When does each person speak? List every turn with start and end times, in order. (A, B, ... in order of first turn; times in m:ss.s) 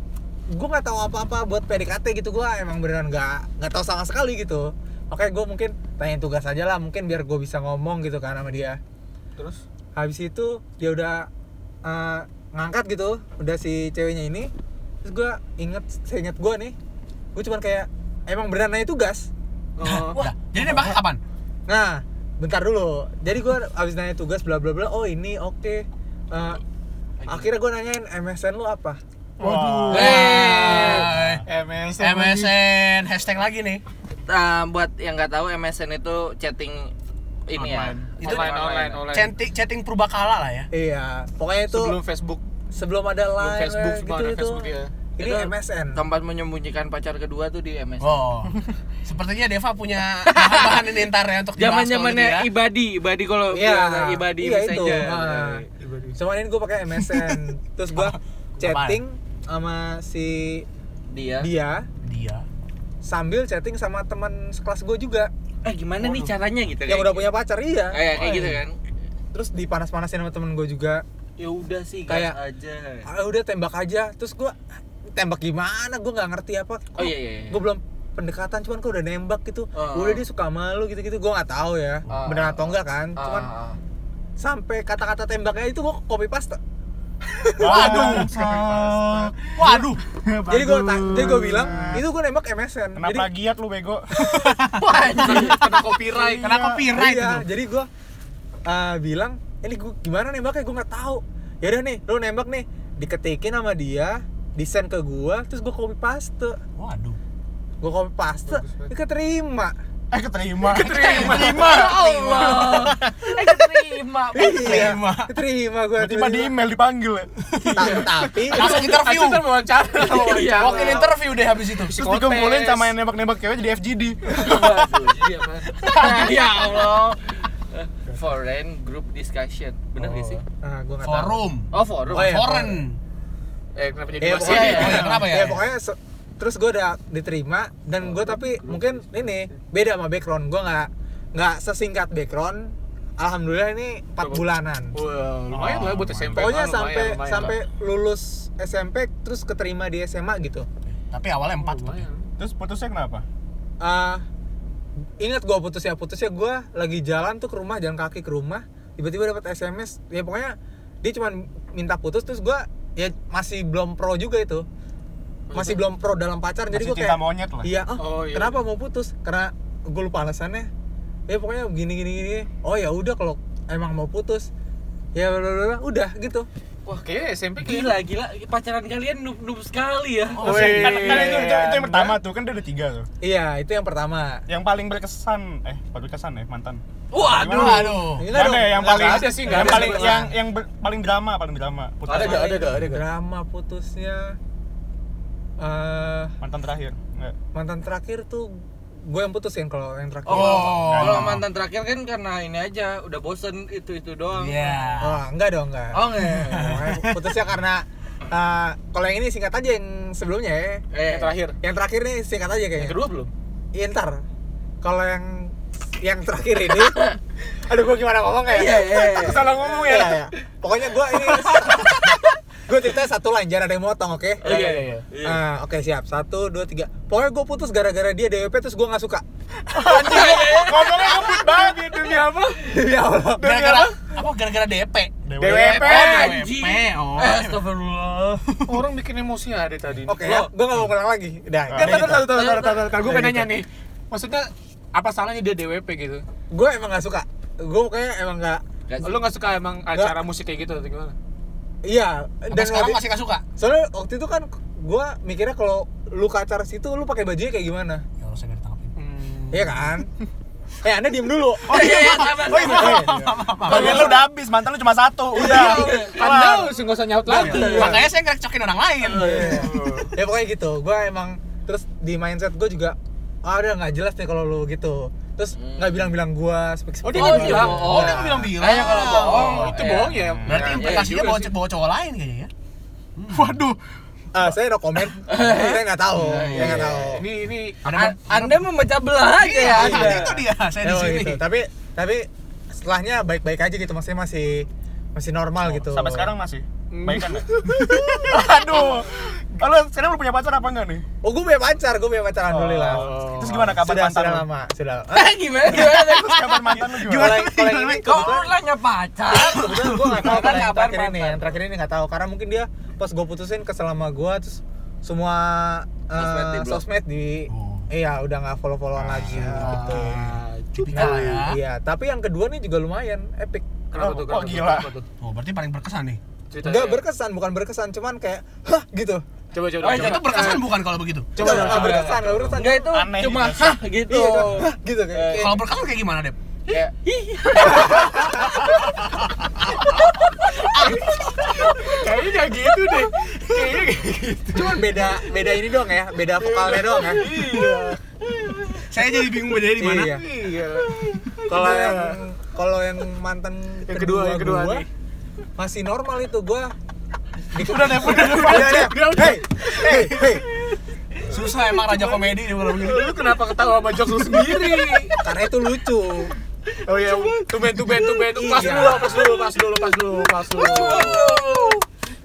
0:00.5-0:08.8 A
0:09.4-0:09.6 B
0:10.0-0:11.3 A
0:11.8-0:14.5 A
0:15.0-0:16.8 A
0:17.4-0:19.3 A
0:19.8-0:20.2 B
0:19.8-0:21.2 C
0:21.7-0:26.6 A
0:27.2-0:27.5 D
0:27.3-0:29.0 A
0:29.4-0:30.3 E
0:29.4-0:31.4 C
0:29.5-0:32.6 B
0:29.9-0:31.1 D
0:32.0-0:33.8 C
0:34.3-0:36.9 D
0:37.5-0:39.0 D
0:37.6-0:38.5 C
0:38.2-0:39.3 B
0:39.1-0:40.7 C
0:40.7-0:42.0 A
0:41.7-0:42.4 B
0:42.7-0:46.0 A
0:43.4-0:44.9 B
0:45.2-0:48.2 D
0:48.0-0:52.5 C
0:50.3-0:50.9 D
0:51.6-0:55.7 D
0:53.5-0:55.6 A
0:55.8-0:56.2 B
0:56.2-1:00.7 A
0:57.0-0:57.4 C
0:57.9-0:59.0 C
1:01.1-1:01.5 D
1:01.4-1:01.9 A
1:02.0-1:02.4 C
1:03.0-1:05.3 A
1:05.6-1:07.4 D
1:06.9-1:08.0 A
1:07.9-1:08.8 D
1:08.2-1:08.6 C
1:09.3-1:11.0 A
1:11.4-1:13.1 D
1:12.1-1:12.4 A
1:13.1-1:14.6 A
1:15.1-1:23.5 A
1:17.0-1:17.6 D
1:19.7-1:20.2 D
1:22.1-1:23.8 D
1:24.4-1:26.6 A
1:27.2-1:28.3 A
1:27.6-1:30.0 C
1:27.6-1:32.0 E
1:30.5-1:33.3 A
1:33.0-1:34.3 E
1:34.2-1:35.8 C
1:34.8-1:35.6 D
1:35.0-1:36.6 B
1:36.2-1:36.8 E
1:36.4-1:37.5 C
1:36.8-1:37.9 A
1:38.7-1:46.6 A
1:46.8-1:47.2 C
1:47.8-1:49.8 A
1:48.5-1:48.9 B
1:50.1-1:52.0 E
1:50.7-1:52.0 B
1:50.9-1:54.9 D
1:51.0-1:51.5 C
1:52.3-1:52.7 A
1:52.4-1:52.9 C
1:54.3-1:56.5 A
1:54.4-1:55.3 C
1:56.0-1:57.3 E
1:57.6-1:57.9 C
1:57.7-2:01.2 B
1:57.7-1:58.8 A
1:58.4-2:02.0 C
2:00.0-2:01.1 D
2:01.7-2:02.9 B
2:02.0-2:04.9 E
2:04.3-2:05.2 D
2:05.1-2:05.8 B
2:05.8-2:06.4 C
2:05.8-2:10.4 D
2:10.0-2:10.4 B
2:10.6-2:11.4 A
2:11.0-2:13.0 C
2:11.7-2:12.4 D
2:12.1-2:12.8 A
2:13.8-2:15.2 B
2:14.2-2:25.0 A
2:14.3-2:15.2 D
2:14.4-2:15.7 C
2:18.0-2:19.0 B
2:24.2-2:27.6 B
2:25.5-2:26.6 E
2:26.4-2:30.7 A
2:31.1-2:32.1 C
2:31.6-2:32.3 B
2:32.4-2:33.2 E
2:33.8-2:34.2 A
2:35.2-2:44.6 A
2:45.5-2:45.8 B
2:45.5-2:50.7 A
2:46.7-2:47.7 E
2:48.0-2:48.6 B
2:51.3-2:54.5 A
2:55.2-2:56.5 A
2:56.9-2:58.0 B
2:57.6-3:00.6 D
3:00.4-3:01.4 C
3:00.4-3:02.1 B
3:00.5-3:03.1 E
3:01.3-3:01.6 A
3:03.2-3:04.4 A
3:04.5-3:12.8 E
3:07.1-3:08.0 D
3:07.3-3:08.3 C
3:08.2-3:10.3 A
3:08.8-3:10.3 B
3:12.1-3:13.1 B
3:12.1-3:14.4 A
3:15.6-3:16.4 A
3:16.4-3:17.4 E
3:17.5-3:20.9 A
3:20.3-3:25.0 D
3:20.3-3:21.4 C
3:20.8-3:21.4 E
3:24.4-3:25.2 C
3:25.0-3:30.8 A
3:25.9-3:26.8 D
3:26.2-3:27.4 C
3:30.9-3:31.4 D
3:31.0-3:31.6 B
3:31.6-3:33.0 A
3:32.8-3:33.3 B
3:33.7-3:34.2 A
3:34.8-3:37.0 A
3:36.8-3:37.2 D
3:37.5-3:44.6 A
3:38.5-3:39.6 D
3:39.2-3:40.2 B
3:44.4-3:45.4 D
3:44.4-3:45.1 B
3:45.2-3:49.2 A
3:49.8-3:51.4 A
3:49.8-3:51.9 E
3:49.9-3:52.6 B
3:49.9-3:51.0 D
3:52.6-3:54.0 A
3:53.4-3:57.6 C
3:55.3-3:56.2 E
3:55.4-3:56.4 B
3:55.7-3:58.5 D
3:58.5-3:58.8 C
3:58.7-4:00.5 B
4:00.1-4:03.5 A
4:00.2-4:00.5 D
4:01.7-4:02.3 E
4:01.7-4:06.2 B
4:02.3-4:02.9 D
4:06.5-4:08.6 A
4:08.9-4:09.2 D
4:09.0-4:11.2 B
4:11.8-4:13.0 A
4:12.5-4:13.4 C
4:13.6-4:18.0 A
4:18.2-4:19.0 C
4:19.0-4:19.8 B
4:19.5-4:20.1 A
4:20.8-4:21.9 A
4:21.7-4:23.2 D
4:21.7-4:24.2 C
4:22.6-4:24.0 A
4:23.6-4:26.8 E
4:23.8-4:24.1 D
4:25.4-4:26.2 D
4:25.4-4:28.0 B
4:27.3-4:28.0 A
4:27.3-4:28.0 D
4:27.3-4:29.7 C
4:29.0-4:29.7 D
4:29.1-4:38.6 A
4:29.6-4:30.2 B
4:35.6-4:36.1 D
4:37.0-4:38.2 B
4:37.1-4:41.2 D
4:37.1-4:42.5 C
4:38.9-4:41.5 B
4:40.3-4:40.6 E
4:43.2-4:43.7 C
4:44.3-4:47.3 A
4:45.2-4:47.2 D
4:46.5-4:48.1 B
4:46.6-4:46.8 C
4:47.8-4:48.6 C
4:47.9-4:50.4 D
4:49.4-4:51.4 C
4:49.7-4:56.3 A
4:55.6-4:57.5 E
4:56.9-4:58.4 B
4:58.3-5:01.1 E
5:01.2-5:05.5 A
5:02.5-5:04.5 E
5:02.8-5:03.7 B
5:05.1-5:06.8 D
5:05.7-5:08.3 C
5:05.8-5:07.4 E
5:07.1-5:08.6 A
5:08.0-5:11.6 D
5:09.3-5:23.8 A
5:09.6-5:10.4 C
5:16.2-5:16.8 D
5:17.5-5:17.9 C
5:19.0-5:19.5 E
5:19.1-5:21.6 C
5:19.3-5:21.4 B
5:23.9-5:25.1 B
5:24.0-5:24.9 E
5:25.2-5:26.2 C
5:26.5-5:27.0 B
5:26.6-5:29.3 A
5:29.5-5:30.7 B
5:29.8-5:30.6 D
5:29.8-5:31.4 C
5:31.4-5:32.5 B
5:31.4-5:32.9 A
5:31.4-5:35.6 D
5:32.7-5:33.8 E
5:34.1-5:35.6 A
5:35.4-5:36.4 C
5:36.7-5:38.6 D
5:37.6-5:38.4 B
5:39.8-5:41.6 D
5:40.8-5:44.9 B
5:40.8-5:41.3 C
5:44.5-5:47.3 A
5:46.4-5:48.9 B
5:48.9-5:50.2 C
5:49.8-5:50.3 A
5:50.0-5:52.2 B
5:51.5-5:54.8 A
5:53.9-5:54.9 B
5:55.6-5:56.7 A
5:57.5-6:00.4 A
5:57.6-6:05.2 B
5:57.6-5:59.0 C
6:01.2-6:03.6 C
6:04.3-6:05.0 C
6:05.2-6:06.3 A
6:06.8-6:11.4 B
6:07.8-6:08.1 C
6:08.3-6:09.4 A
6:08.6-6:09.1 D
6:10.5-6:11.8 D
6:11.0-6:11.6 C